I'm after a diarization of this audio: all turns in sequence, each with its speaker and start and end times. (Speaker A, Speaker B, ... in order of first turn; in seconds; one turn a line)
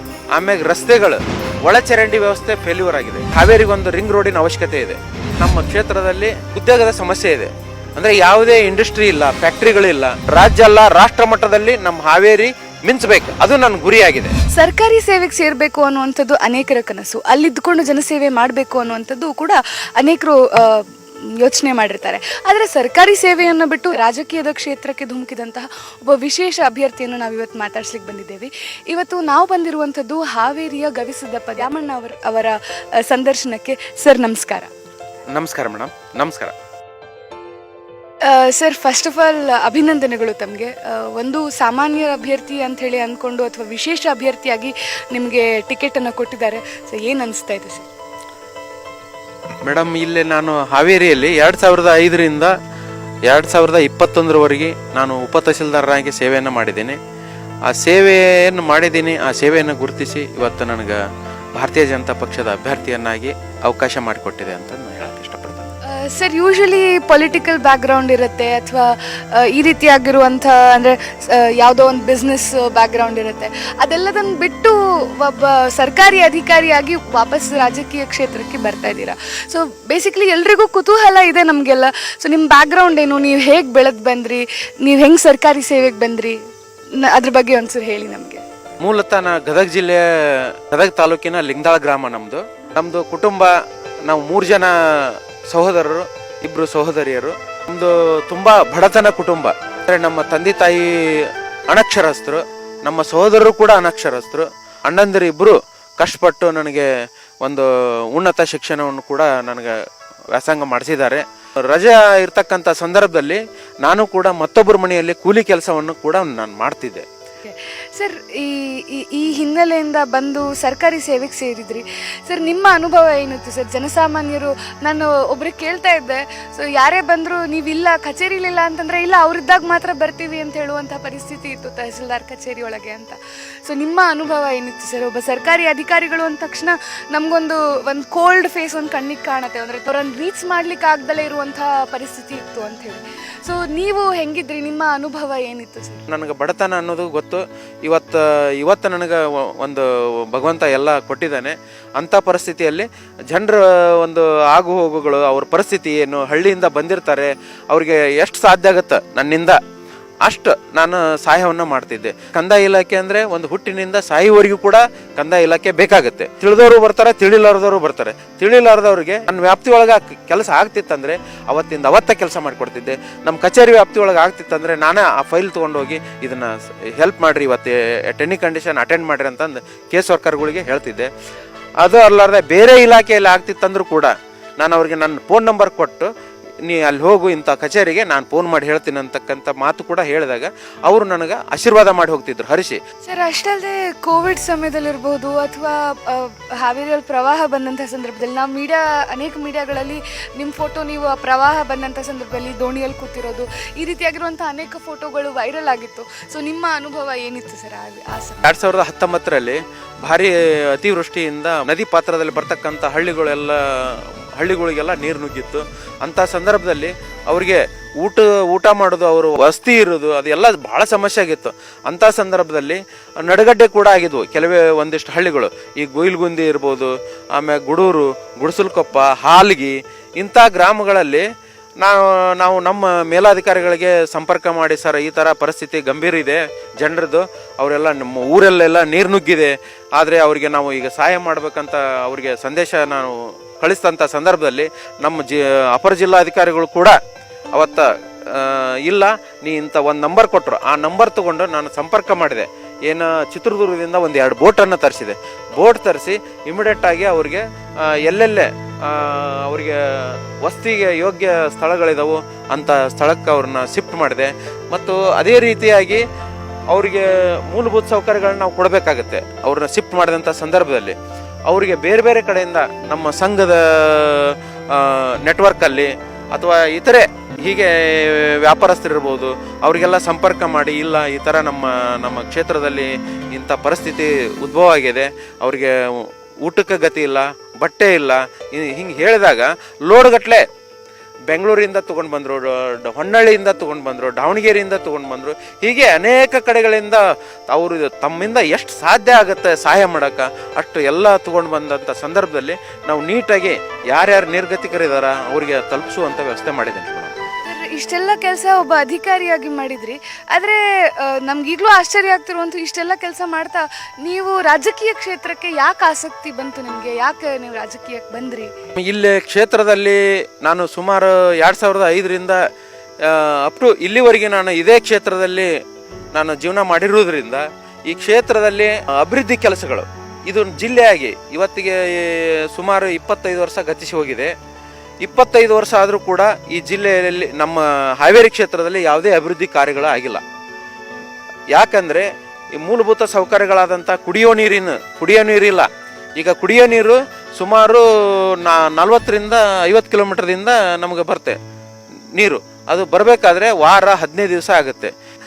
Speaker A: 0.3-14.3
Speaker B: 14.5-34.7
Speaker A: 35.3-36.5
Speaker B: 38.2-47.9
Speaker A: 49.6-52.5
Speaker A: 53.3-57.0
Speaker A: 57.7-61.0
Speaker A: 61.5-65.7
Speaker B: 65.9-86.4
Speaker B: 87.0-88.4
Speaker A: 88.8-93.5
Speaker A: 94.0-106.9
Speaker A: 107.4-109.8
Speaker A: 110.3-117.0
Speaker B: 117.4-146.1
Speaker A: 146.1-159.6
Speaker A: 160.2-181.1
Speaker A: 181.8-186.1
Speaker A: 186.6-192.8
Speaker B: 193.1-208.4
Speaker A: 208.4-231.2
Speaker A: 231.8-247.0
Speaker A: 247.5-266.0
Speaker A: 266.7-270.9
Speaker A: 271.5-290.4
Speaker A: 291.3-307.1
Speaker B: 307.4-318.5
Speaker A: 318.8-322.4
Speaker A: 323.0-325.5
Speaker A: 326.1-334.3
Speaker A: 335.0-340.2
Speaker A: 341.5-351.4
Speaker A: 352.1-354.9